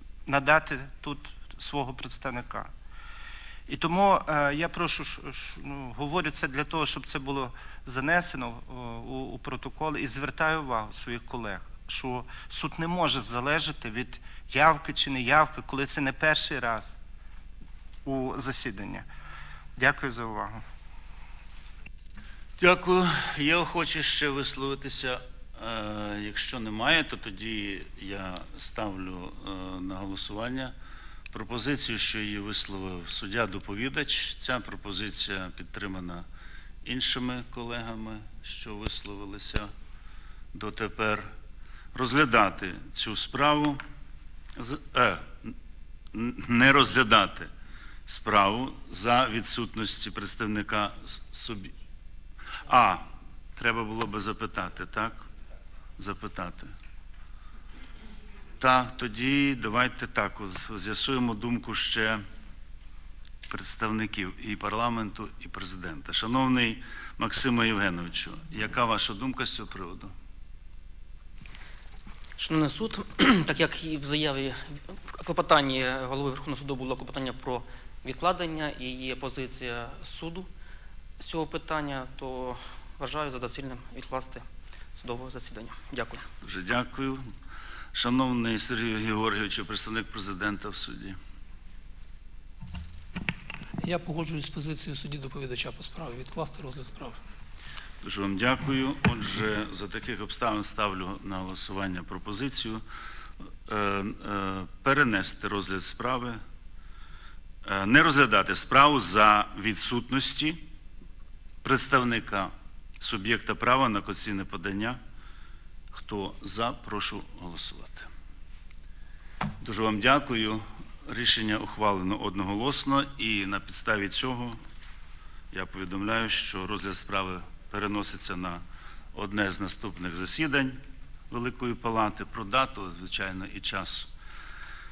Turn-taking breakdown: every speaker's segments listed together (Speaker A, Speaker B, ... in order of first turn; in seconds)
Speaker A: 0.2-2.7, 3.7-17.0, 18.1-19.1, 19.8-20.6
Speaker B: 22.6-30.7, 31.3-36.2, 36.8-39.7, 40.5-41.2, 41.9-43.8, 44.6-45.5, 46.1-47.5, 48.1-51.7, 52.7-53.0, 53.5-55.2, 56.0-56.7, 58.6-62.2, 63.5-70.1, 86.4-87.2, 87.9-91.2, 98.0-102.8, 103.7-106.4, 107.6-110.6, 111.6-115.0, 115.9-118.1, 119.6-124.6, 125.5-128.6, 129.1-130.8, 131.3-134.1
Speaker C: 72.4-80.5, 81.2-84.5, 85.0-86.3
Speaker D: 93.8-97.1